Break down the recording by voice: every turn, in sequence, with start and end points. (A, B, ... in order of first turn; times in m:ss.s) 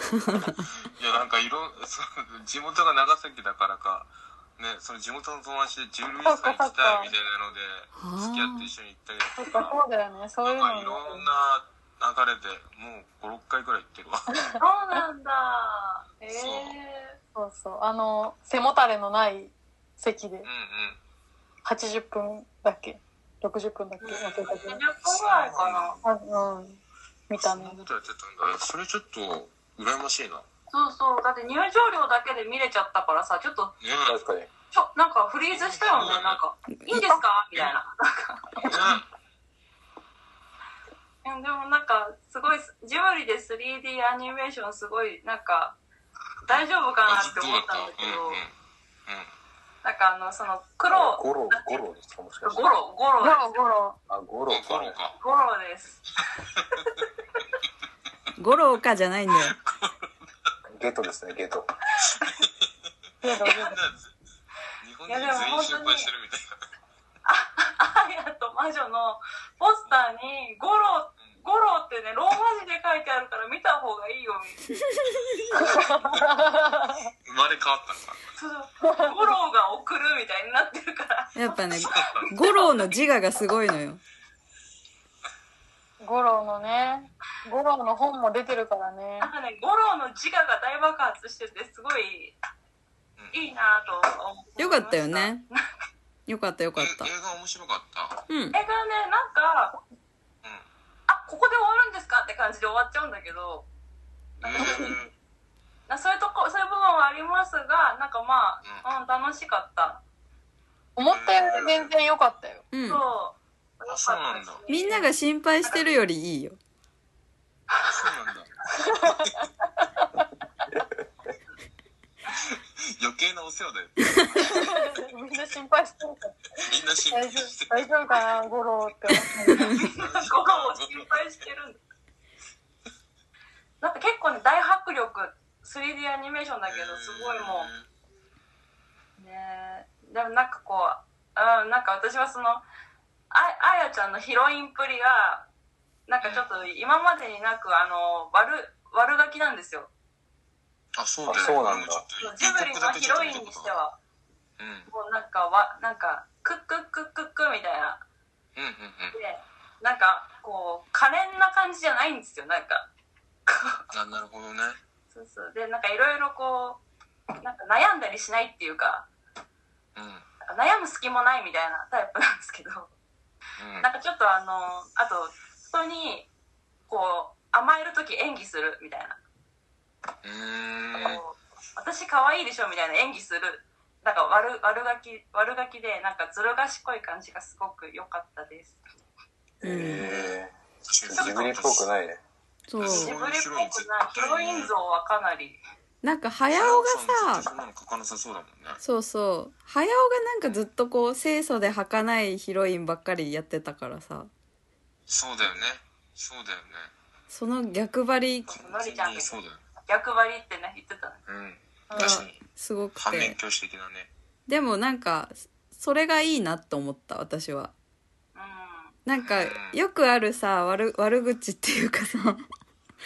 0:00.2-0:00.6 A
0:00.6-0:09.8 B
0:06.2-0:07.1 C
0:08.0-0:08.7 A
0:09.4-0:11.3 C
0:10.4-0:14.3 B
0:14.6-0:17.2 D
0:16.3-0:16.8 B
0:17.4-0:20.5 C
0:20.4-0:21.0 B
0:21.6-0:24.8 C
0:24.0-0:26.0 D
0:24.4-0:26.0 B
0:26.0-0:27.8 C
0:27.4-0:30.5 B
0:30.7-0:33.8 D
0:33.8-0:34.2 B
0:34.1-0:34.5 E
0:34.7-0:38.8 D
0:35.5-0:36.4 B
0:38.6-0:39.1 B
0:41.2-0:45.8 D
0:46.5-0:48.4 D
0:46.5-0:48.5 B
0:49.1-0:49.3 B
0:49.8-0:51.8 D
0:50.9-0:52.7 E
0:52.4-0:53.6 D
0:53.2-0:54.0 C
0:54.1-0:55.0 E
0:54.5-0:55.2 B
0:55.2-0:56.0 D
0:58.4-0:59.6 A
0:59.3-1:00.1 B
1:00.7-1:01.7 E
1:02.0-1:02.3 D
1:02.2-1:02.7 B
1:03.2-1:03.8 C
1:03.2-1:04.1 B
1:04.8-1:06.5 B
1:05.1-1:06.1 D
1:07.2-1:14.6 D
1:15.5-1:16.2 D
1:15.5-1:17.1 C
1:15.8-1:16.2 B
1:17.2-1:18.2 B
1:18.4-1:22.8 D
1:18.8-1:19.3 C
1:21.4-1:24.0 A
1:21.8-1:22.3 B
1:26.0-1:29.3 C
1:29.2-1:32.4 D
1:33.3-1:35.7 D
1:34.6-1:35.5 A
1:36.3-1:37.1 A
1:36.8-1:38.2 B
1:38.3-1:38.6 A
1:38.5-1:39.8 D
1:41.1-1:43.7 D
1:44.4-1:45.0 D
1:44.4-1:45.1 B
1:44.6-1:44.9 C
1:45.9-1:50.0 D
1:51.0-1:52.6 C
1:51.1-1:51.9 B
1:52.7-1:53.0 A
1:52.8-1:55.1 D
1:53.9-1:54.6 B
1:54.7-1:56.6 A
1:55.6-1:55.9 D
1:57.8-1:58.5 B
1:58.8-1:59.3 C
2:02.3-2:04.7 B
2:04.4-2:09.7 C
2:06.6-2:08.2 B
2:09.7-2:11.1 B
2:09.7-2:11.8 D
2:13.8-2:17.7 D
2:16.7-2:17.9 B
2:19.2-2:22.6 D
2:23.3-2:25.5 D
2:26.1-2:29.9 D
2:26.2-2:26.5 B
2:31.0-2:33.8 B
2:31.3-2:32.0 E
2:31.3-2:31.6 D
2:32.2-2:34.0 D
2:34.6-2:34.9 B
2:34.9-2:38.0 D
2:38.6-2:39.2 B
2:39.1-2:42.9 D
2:43.5-2:43.8 D
2:43.9-2:44.8 B
2:45.1-2:46.8 D
2:47.4-2:49.1 D
2:50.0-2:50.3 B
2:50.4-2:52.9 D
2:53.6-2:53.9 B
2:53.8-2:56.3 D
2:56.9-2:59.2 D
3:00.2-3:01.2 B
3:01.0-3:08.8 D
3:09.6-3:10.5 E
3:09.6-3:10.0 A
3:10.0-3:11.9 B
3:11.1-3:12.2 E
3:11.2-3:11.5 D
3:12.7-3:13.1 A
3:12.8-3:14.7 B
3:12.8-3:15.6 D
3:16.0-3:17.5 A
3:16.5-3:18.8 B
3:18.8-3:24.3 A
3:25.1-3:26.9 B
3:27.3-3:28.6 A
3:28.5-3:29.6 B
3:28.5-3:31.2 D
3:31.3-3:34.1 B
3:31.9-3:32.2 C
3:32.0-3:33.4 A
3:34.5-3:37.7 A
3:38.4-3:39.0 D
3:39.0-3:42.4 A
3:39.2-3:39.8 B